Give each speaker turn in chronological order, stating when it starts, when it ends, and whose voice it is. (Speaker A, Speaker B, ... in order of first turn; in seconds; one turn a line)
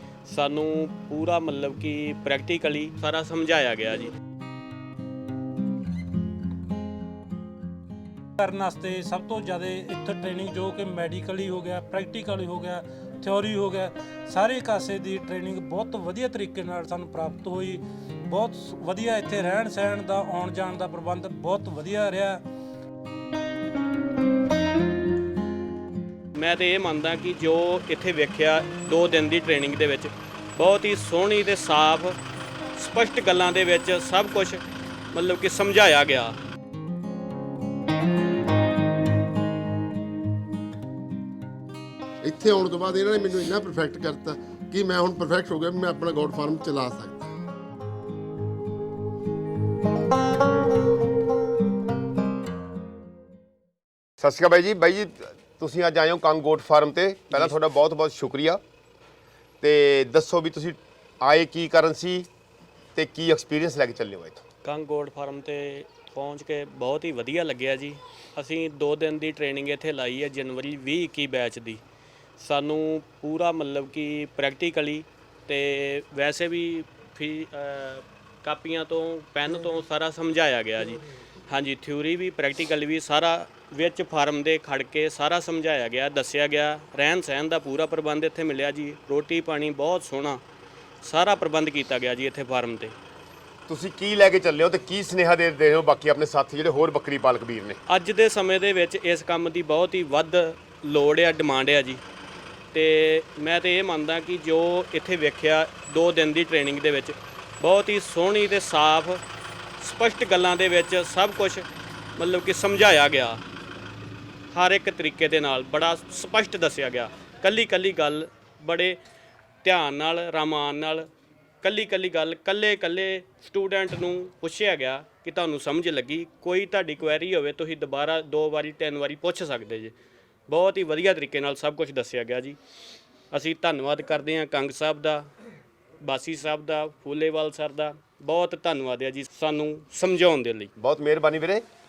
Speaker A: 0.3-4.1
Speaker B: 8.4-22.4
Speaker A: 26.4-32.2
Speaker A: 32.8-34.6
Speaker A: 35.1-36.4
Speaker C: 42.2-47.4
Speaker D: 54.2-58.6
Speaker D: 59.6-62.3
Speaker D: 63.0-64.4
Speaker A: 64.6-71.8
Speaker A: 72.4-90.4
Speaker A: 91.0-93.0
Speaker D: 93.7-97.8
Speaker A: 97.9-102.0
Speaker A: 102.7-109.2
Speaker A: 109.8-113.4
Speaker A: 114.5-119.0
Speaker A: 119.6-121.1
Speaker A: 121.6-129.9
Speaker A: 130.5-132.6
Speaker A: 133.3-135.3
Speaker A: 136.0-140.7
Speaker D: 140.8-141.6